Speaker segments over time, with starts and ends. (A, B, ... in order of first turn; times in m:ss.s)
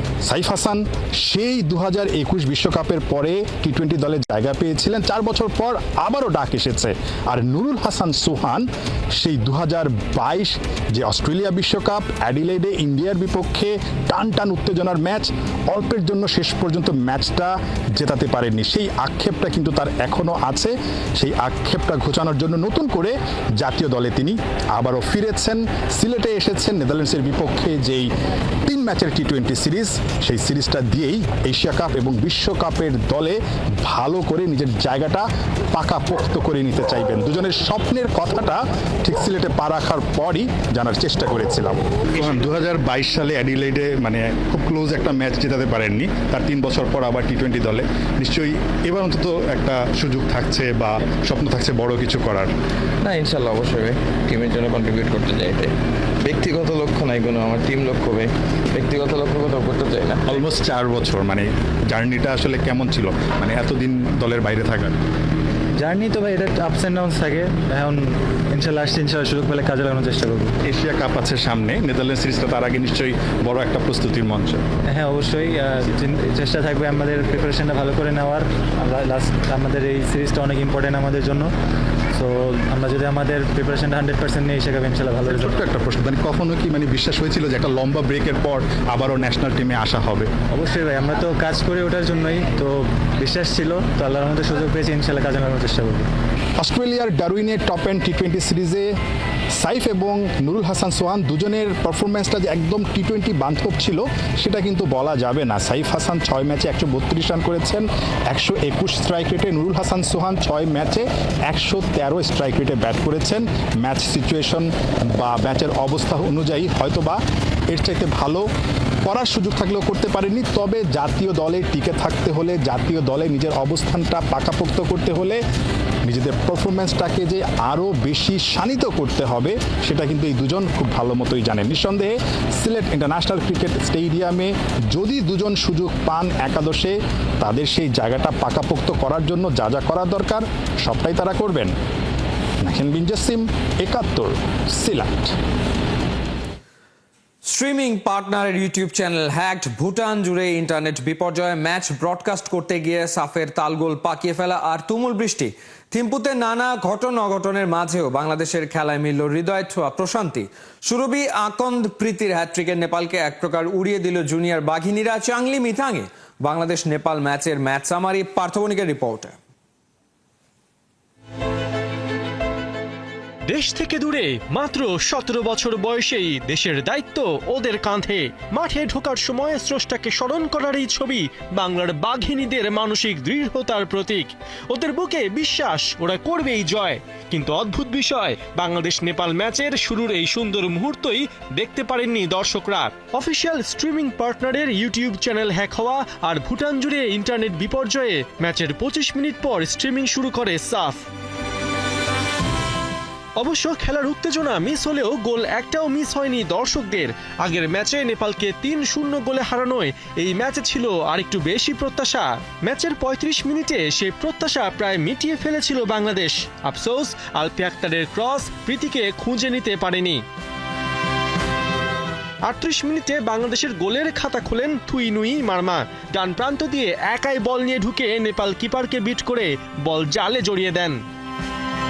0:00.2-0:28.1 A
0:28.6-0:52.5 A
0:53.0-0:55.7 B
0:56.2-1:00.2 B
1:00.3-1:05.0 A
1:05.8-1:10.6 C
1:10.6-1:14.6 A
1:14.9-1:21.5 C
1:22.1-1:25.6 C
1:25.2-1:30.3 A
1:30.5-1:36.1 C
1:36.6-1:38.9 A
1:39.6-1:57.2 A
1:57.7-1:58.5 A
1:59.1-2:05.4 A
2:06.1-2:21.7 A
2:22.6-2:25.3 A
2:27.4-2:49.4 D
2:53.5-3:21.0 E
3:23.4-3:40.2 E
3:42.5-3:51.0 E